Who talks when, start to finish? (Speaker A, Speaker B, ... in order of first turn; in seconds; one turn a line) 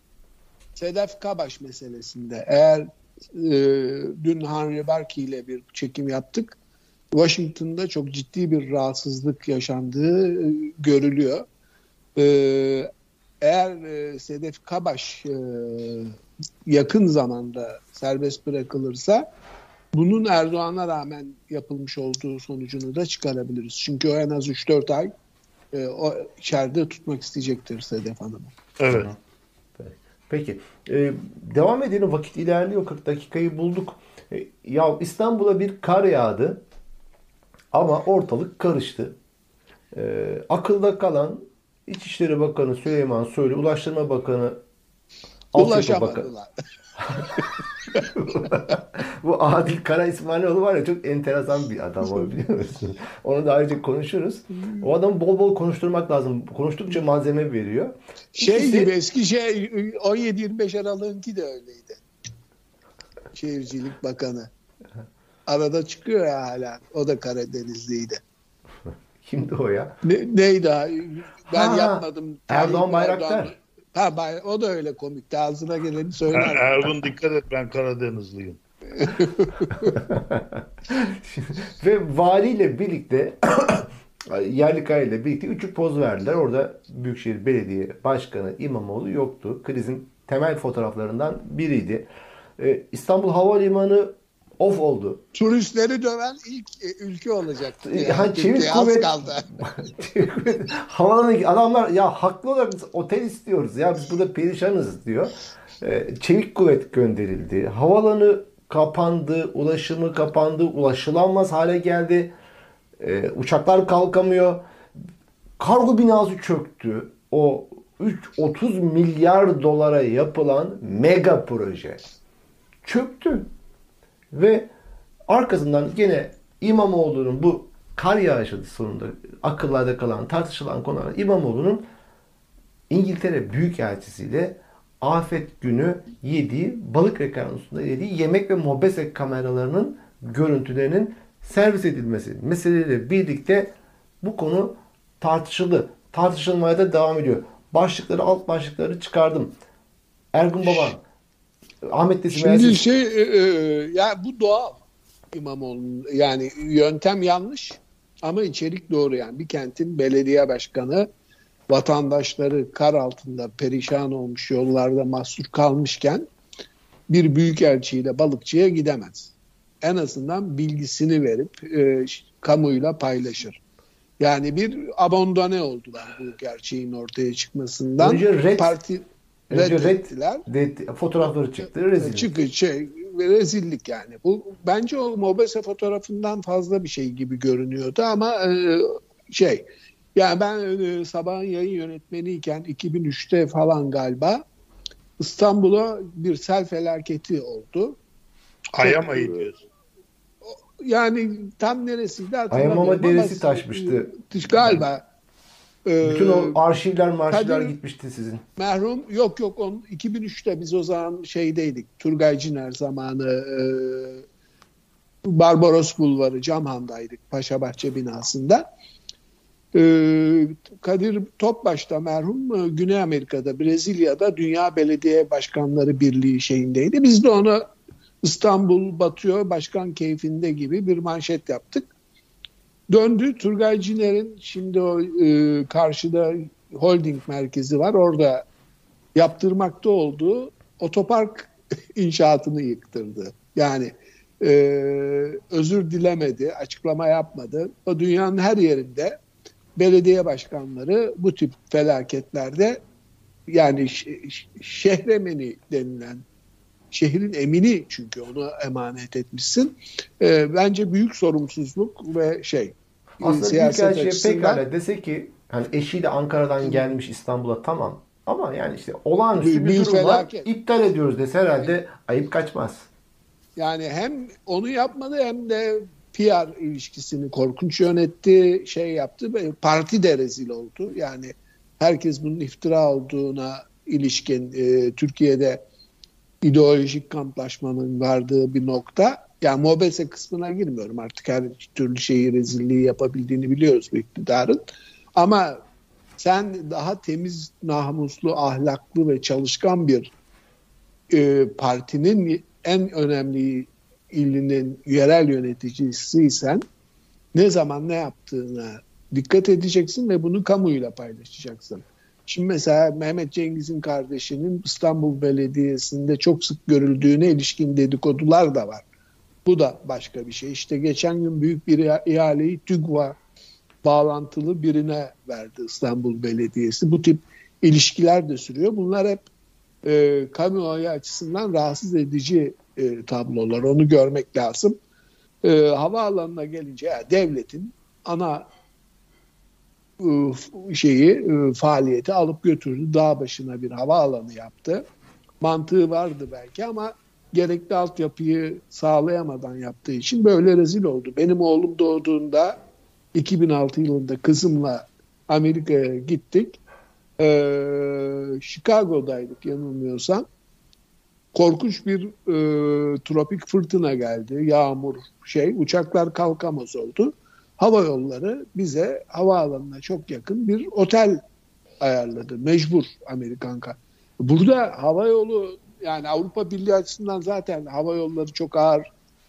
Speaker A: 0.8-6.5
Speaker A: 7.1-11.4
Speaker A: 12.2-12.9
Speaker A: 13.4-16.1
Speaker A: 16.7-19.3
Speaker A: 19.9-25.1
Speaker A: 25.7-28.5
Speaker B: 28.8-29.1
Speaker C: 28.9-29.1
Speaker C: 29.8-36.6
Speaker C: 37.7-39.1
Speaker C: 39.9-44.6
Speaker C: 45.5-46.3
Speaker A: 45.5-46.5
Speaker C: 47.1-47.4
Speaker C: 47.9-58.9
Speaker A: 58.3-62.0
Speaker A: 63.3-64.5
Speaker A: 65.5-68.2
Speaker C: 69.2-70.0
Speaker A: 70.0-76.9
Speaker C: 71.5-73.5
Speaker B: 76.3-78.6
Speaker A: 78.9-80.0
Speaker C: 79.8-92.1
Speaker C: 92.6-95.2
Speaker A: 95.3-99.5
Speaker C: 97.8-112.3
Speaker C: 113.0-114.6
Speaker C: 115.6-122.0
Speaker C: 122.8-123.5
Speaker C: 124.3-124.7
Speaker C: 125.3-131.8
Speaker C: 132.9-149.5
Speaker C: 150.3-151.0
Speaker A: 150.7-150.9
Speaker C: 151.8-152.8
Speaker A: 152.3-154.8
Speaker A: 155.3-161.1
Speaker A: 161.7-166.3
Speaker A: 167.1-173.6
Speaker A: 174.2-180.4
Speaker C: 178.0-178.7
Speaker C: 179.5-182.4
Speaker A: 182.0-194.4
Speaker A: 195.2-198.0
Speaker B: 198.7-199.6
Speaker A: 198.8-199.5
Speaker A: 200.4-205.0
Speaker C: 202.5-204.8
Speaker A: 205.8-206.6
Speaker C: 206.0-208.4
Speaker A: 207.3-207.7
Speaker A: 208.6-214.2
Speaker A: 215.2-218.7
Speaker A: 219.7-227.7
Speaker A: 228.2-231.9
Speaker A: 232.9-238.4
Speaker A: 239.1-249.2
Speaker A: 249.8-252.8
Speaker A: 253.5-256.2
Speaker A: 256.9-264.6
Speaker C: 263.2-272.9
Speaker A: 269.4-270.5
Speaker A: 273.6-285.6
Speaker A: 286.4-294.6
Speaker A: 295.1-295.6
Speaker A: 296.2-300.1
Speaker A: 301.1-306.6
Speaker A: 307.3-318.8
Speaker A: 319.4-323.2
Speaker A: 323.8-329.3
Speaker A: 329.8-334.8
Speaker A: 335.4-338.5
Speaker A: 340.0-344.8
Speaker A: 345.4-352.6
Speaker A: 353.1-356.6
Speaker A: 357.2-360.2
Speaker A: 361.3-371.2
Speaker A: 371.8-378.9